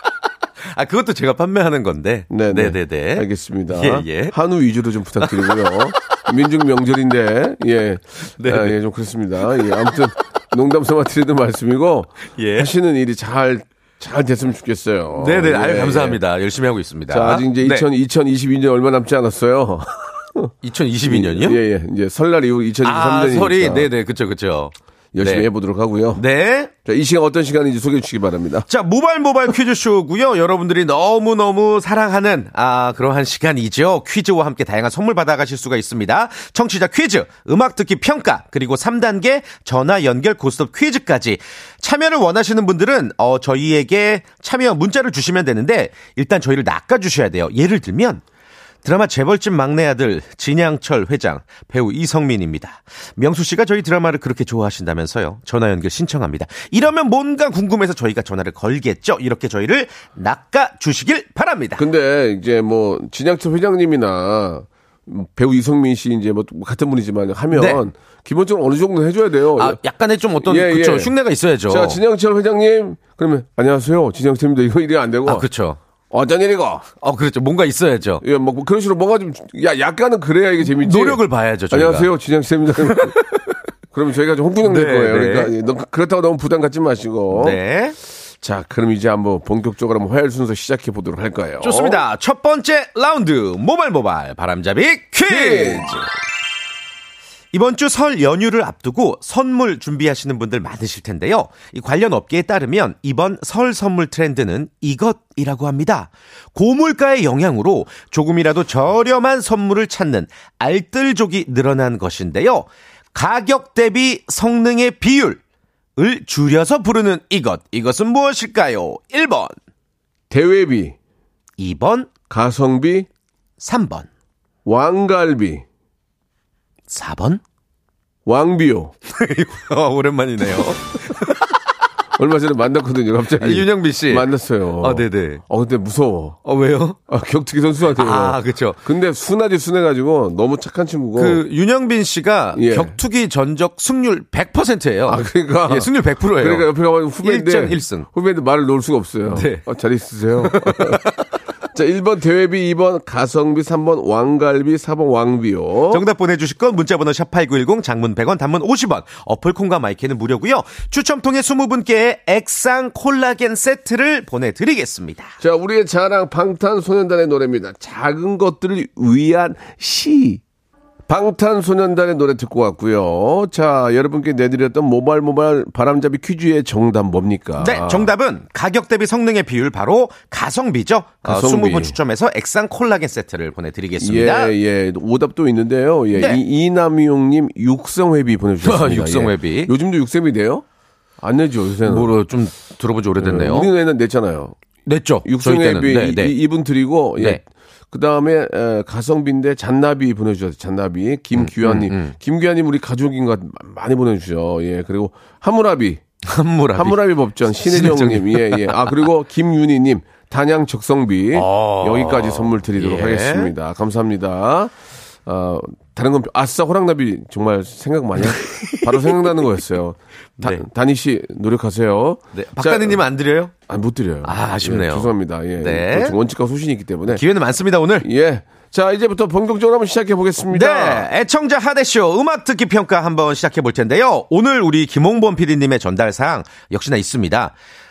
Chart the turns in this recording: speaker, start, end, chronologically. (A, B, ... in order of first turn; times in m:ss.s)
0:00.7-0:04.4 A
0:02.3-0:16.2 B
0:05.2-0:05.8 A
0:08.4-0:08.8 A
0:12.4-0:12.7 A
0:15.2-0:17.9 A
0:17.1-0:20.5 B
0:20.6-0:21.6 A
0:21.1-0:23.9 B
0:22.8-0:25.5 A
0:25.1-0:26.2 B
0:26.1-0:26.7 A
0:26.8-0:28.7 B
0:28.7-0:48.2 A
0:48.8-1:01.8 A
1:01.8-1:09.8 B
1:07.5-1:07.8 A
1:09.6-1:12.0 A
1:10.4-1:11.1 B
1:11.7-1:15.5 B
1:15.3-1:15.8 A
1:16.1-1:16.9 B
1:17.0-1:18.2 A
1:18.2-1:23.2 B
1:20.7-1:22.1 A
1:22.9-1:23.5 A
1:23.9-1:27.6 B
1:24.6-1:25.5 A
1:27.3-1:28.0 A
1:28.4-1:32.0 B
1:31.6-1:35.9 A
1:35.2-1:36.1 B
1:37.5-1:55.4 A
1:56.0-1:59.6 A
2:00.3-2:01.0 B
2:01.6-2:02.1 A
2:02.3-2:03.1 B
2:03.6-2:04.1 A
2:04.6-2:05.6 B
2:06.9-2:07.4 A
2:08.3-2:08.9 B
2:09.1-2:11.5 A
2:12.2-2:16.4 B
2:13.4-2:14.3 A
2:14.8-2:15.4 A
2:16.4-2:17.0 A
2:17.1-2:21.4 B
2:18.0-2:18.8 A
2:21.2-2:26.7 A
2:22.5-2:23.0 B
2:25.1-2:31.1 B
2:27.2-2:28.1 A
2:29.3-2:29.7 A
2:30.4-2:31.3 A
2:31.7-2:36.0 B
2:35.9-2:45.3 A
2:45.4-2:50.4 B
2:51.1-2:58.1 B
2:57.6-3:04.5 A
3:01.2-3:02.0 B
3:04.0-3:10.6 B
3:06.2-3:06.4 A
3:08.6-3:09.7 A
3:11.2-3:12.2 B
3:11.9-3:13.7 A
3:13.2-3:14.6 B
3:14.9-3:16.4 A
3:15.2-3:26.0 B
3:21.4-3:22.2 A
3:26.3-3:27.1 A
3:26.8-3:34.7 B
3:27.6-3:29.0 A
3:31.3-3:33.5 A
3:35.3-3:43.0 B
3:38.4-3:39.1 A
3:40.4-3:40.6 A
3:42.3-3:43.5 A
3:43.7-3:47.2 B
3:44.2-3:46.2 A
3:47.1-3:48.1 A
3:48.0-3:51.1 B
3:50.5-3:57.5 A